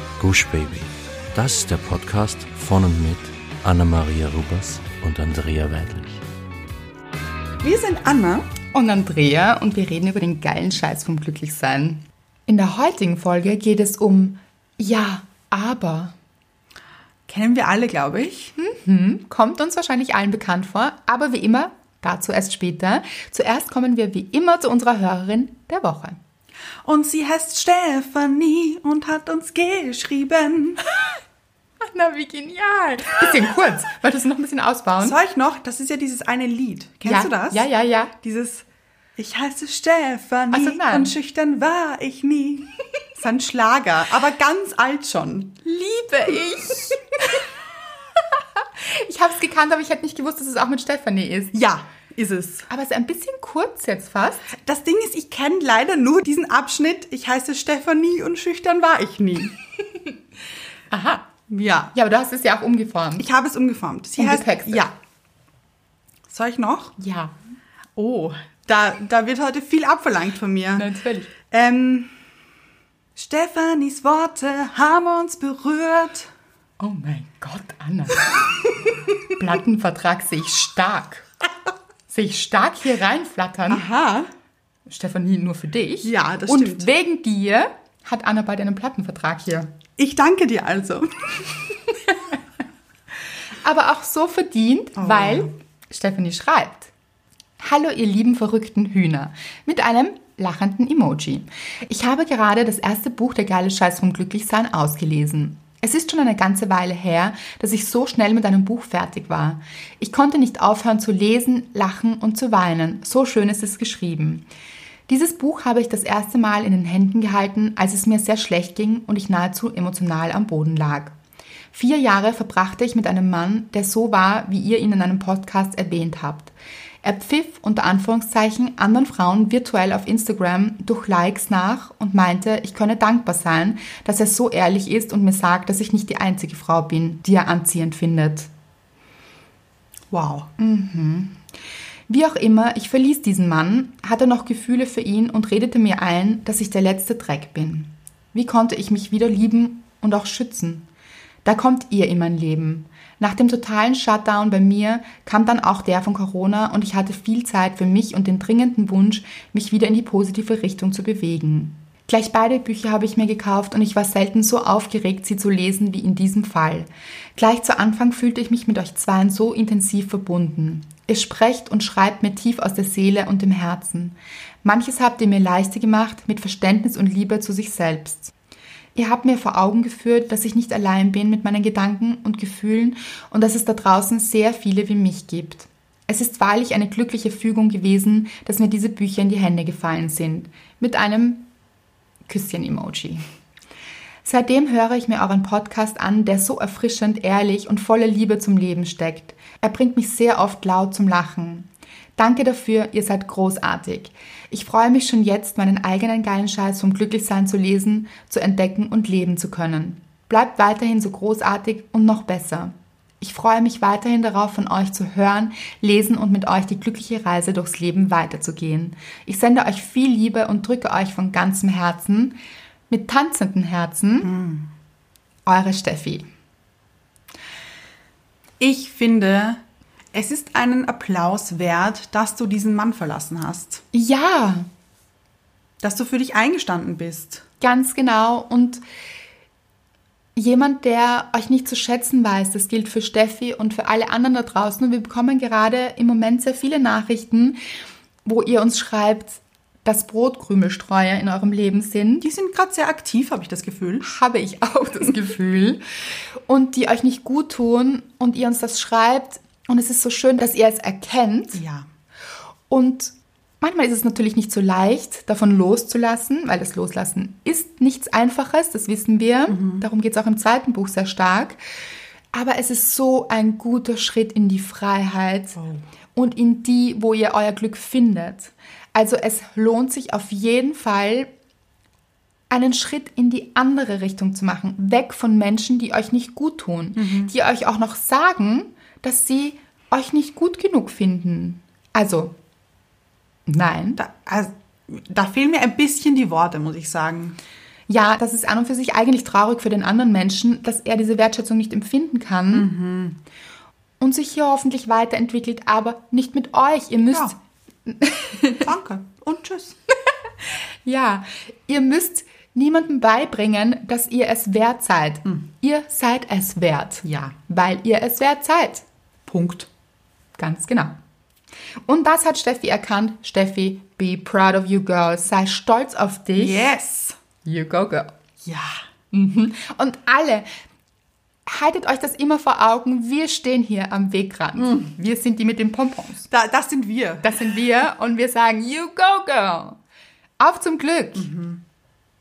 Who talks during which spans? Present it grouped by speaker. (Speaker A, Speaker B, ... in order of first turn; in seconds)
Speaker A: 0.2-6.2
Speaker B: 7.6-8.5, 17.3-18.5, 26.8-30.8, 35.0-38.6, 39.2-45.6, 51.5-52.7, 54.6-59.6, 61.5-61.9, 63.2-64.9, 66.3-67.0, 68.0-70.9, 71.5-72.1, 73.2-76.3, 83.7-84.3, 86.0-86.9, 90.0-91.6, 95.0-95.5, 140.1-140.5, 224.2-224.7, 228.6-229.6, 230.1-233.8, 235.8-237.4, 252.2-254.1, 261.6-261.9, 269.5-269.9, 287.0-287.3, 294.0-297.4, 302.5-303.2, 308.6-309.8, 317.0-317.4, 319.3-319.7, 326.4-327.2, 328.4-328.8, 334.6-334.9, 336.3-337.3, 341.1-341.6
Speaker C: 8.7-16.1, 18.6-26.2, 31.8-35.2, 37.0-38.1, 40.5-41.1, 45.6-47.5, 48.4-51.5, 52.7-54.6, 60.9-61.3, 61.9-63.3, 64.2-64.9, 67.0-67.3, 70.8-71.3, 76.8-78.3, 79.3-81.3, 82.1-83.9, 84.9-89.7, 93.6-96.9, 97.6-114.5, 115.1-121.2, 121.7-126.5, 127.0-138.5, 140.6-141.4, 142.1-150.9, 151.4-178.3, 178.9-191.4, 192.3-193.2, 194.2-222.4, 222.9-224.3, 225.5-226.2, 233.9-234.7, 237.6-238.8, 240.4-247.6, 248.2-252.3, 254.0-255.8, 256.5-261.6, 262.7-271.6, 272.3-275.6, 276.1-281.3, 282.5-292.4, 293.5-294.0, 297.9-302.7, 304.0-308.7, 310.9-318.9, 320.4-320.9, 321.9-326.7, 327.4-328.1, 329.1-330.5, 331.5-336.3, 337.2-339.8, 340.4-341.3